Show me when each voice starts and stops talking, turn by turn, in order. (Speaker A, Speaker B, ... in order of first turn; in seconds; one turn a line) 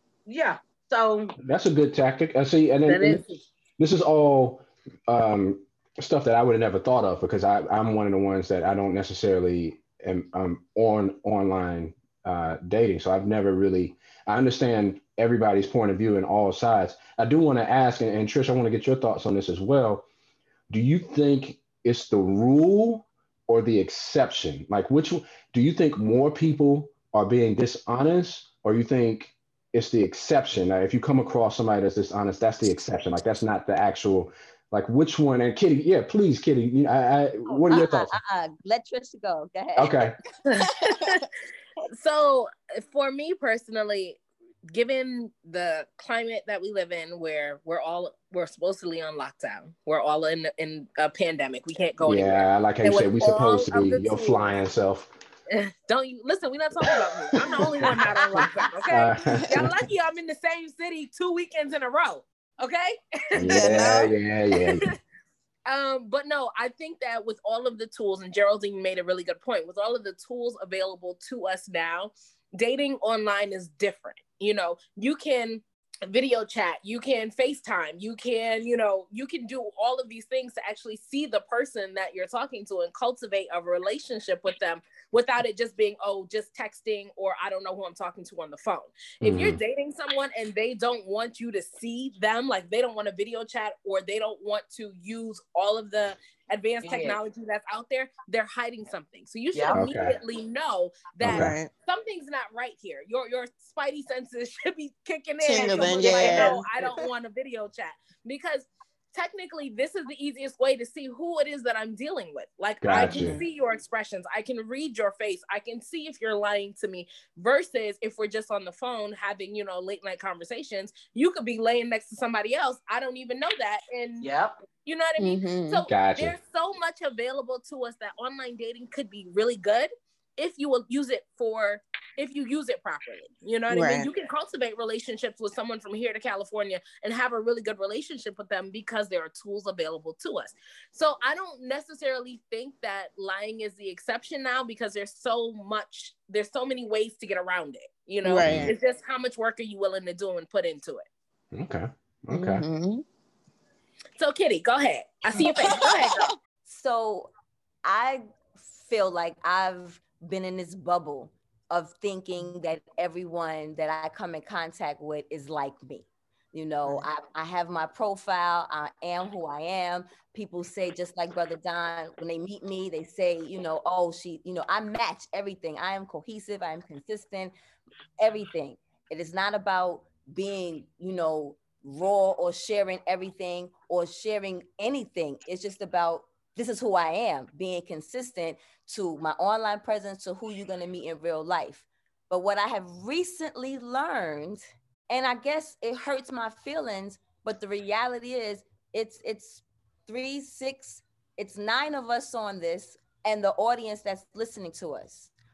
Speaker A: 0.3-1.4
Speaker B: 1.4-3.2
Speaker B: 3.8-20.1
Speaker B: 20.7-38.1
Speaker C: 37.5-40.0
Speaker B: 39.8-40.2
Speaker D: 40.5-41.2
Speaker E: 40.5-41.3
Speaker E: 41.9-54.6
Speaker B: 52.0-55.1
Speaker E: 55.5-63.9
Speaker A: 57.8-58.8
Speaker B: 58.9-59.8
Speaker D: 59.4-59.7
Speaker D: 63.3-64.1
Speaker B: 63.4-64.9
Speaker E: 64.5-64.9
Speaker E: 65.7-124.3
Speaker B: 89.2-89.6
Speaker A: 96.8-97.2
Speaker A: 99.5-99.8
Speaker B: 99.7-100.2
Speaker B: 101.2-101.5
Speaker D: 101.2-101.7
Speaker D: 105.4-106.6
Speaker A: 105.6-106.9
Speaker B: 112.8-113.4
Speaker D: 113.0-113.4
Speaker A: 124.2-124.6
Speaker E: 124.8-151.1
Speaker D: 125.2-125.8
Speaker B: 125.9-126.4
Speaker D: 133.7-134.1
Speaker D: 148.2-148.8
Speaker B: 148.4-148.7
Speaker B: 151.5-152.7
Speaker D: 152.3-153.0
Speaker E: 154.2-156.3
Speaker D: 155.4-156.3
Speaker C: 156.7-157.3
Speaker C: 157.8-177.5
Speaker C: 178.2-205.3